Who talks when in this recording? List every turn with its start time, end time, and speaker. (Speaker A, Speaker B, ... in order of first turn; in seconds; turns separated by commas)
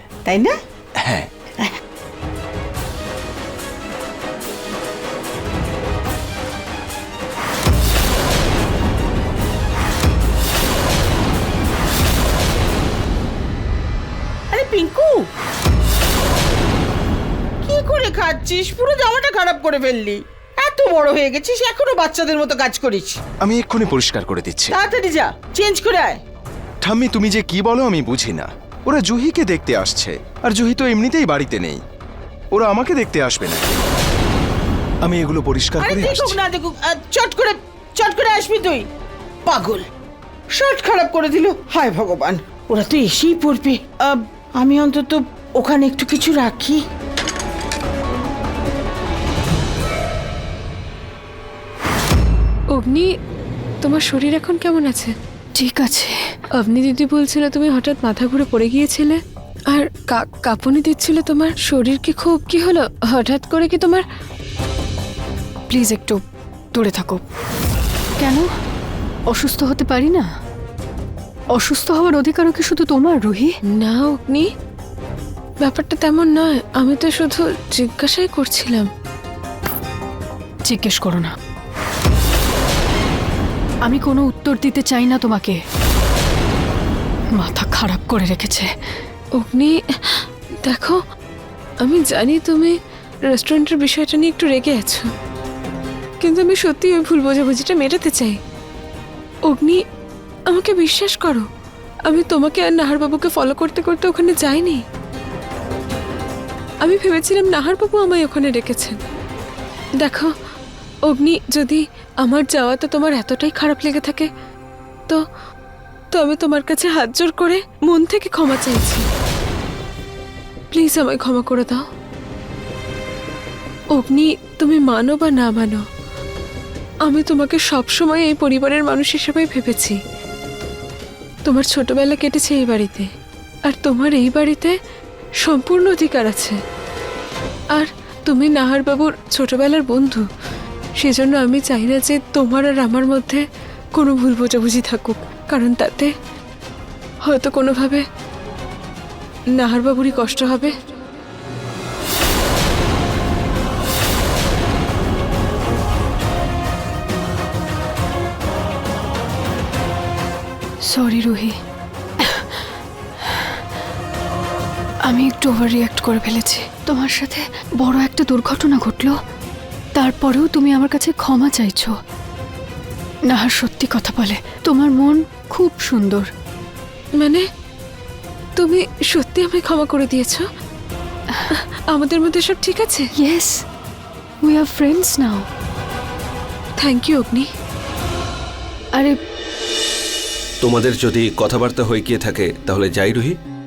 Speaker A: 0.3-0.5, Speaker B: 1.0-1.3, Speaker A: 14.5-15.3, Speaker A: 17.6-23.2, Speaker B: 23.4-24.7, Speaker A: 24.7-26.2, Speaker B: 26.8-31.8, Speaker B: 32.5-33.8, Speaker B: 35.0-36.4, Speaker A: 35.8-38.9, Speaker A: 39.5-39.9, Speaker A: 40.5-46.8, Speaker C: 52.7-53.1, Speaker C: 53.8-55.1, Speaker D: 55.5-56.2, Speaker C: 56.6-59.2, Speaker C: 59.7-64.0, Speaker D: 65.7-66.2, Speaker D: 66.7-67.2, Speaker D: 68.2-68.5, Speaker D: 69.3-70.2, Speaker D: 71.5-73.5, Speaker C: 73.7-74.5, Speaker C: 75.6-78.9, Speaker D: 80.7-81.3, Speaker D: 83.8-85.6, Speaker D: 87.3-88.7, Speaker C: 89.4-91.0, Speaker C: 91.8-92.8, Speaker C: 93.3-95.1, Speaker C: 96.2-98.4, Speaker C: 99.5-99.8, Speaker C: 100.5-101.5, Speaker C: 102.1-104.8, Speaker C: 106.8-109.0, Speaker C: 110.0-110.3, Speaker C: 111.1-114.3, Speaker C: 116.1-119.0, Speaker C: 120.7-121.8, Speaker C: 123.9-125.8, Speaker C: 127.0-130.0, Speaker C: 131.4-133.1, Speaker C: 133.7-134.7, Speaker C: 135.4-136.6, Speaker C: 137.7-140.2, Speaker C: 141.0-143.4, Speaker C: 143.9-146.1, Speaker C: 147.2-148.0, Speaker C: 149.5-150.7, Speaker D: 160.9-161.5, Speaker D: 162.2-162.6, Speaker D: 163.2-163.6, Speaker D: 165.1-169.2, Speaker D: 169.9-171.9, Speaker D: 173.3-176.3, Speaker C: 177.2-177.4, Speaker C: 178.6-180.4, Speaker C: 181.5-183.1, Speaker D: 183.2-183.6, Speaker D: 184.4-185.5, Speaker C: 186.8-187.5, Speaker E: 190.6-193.4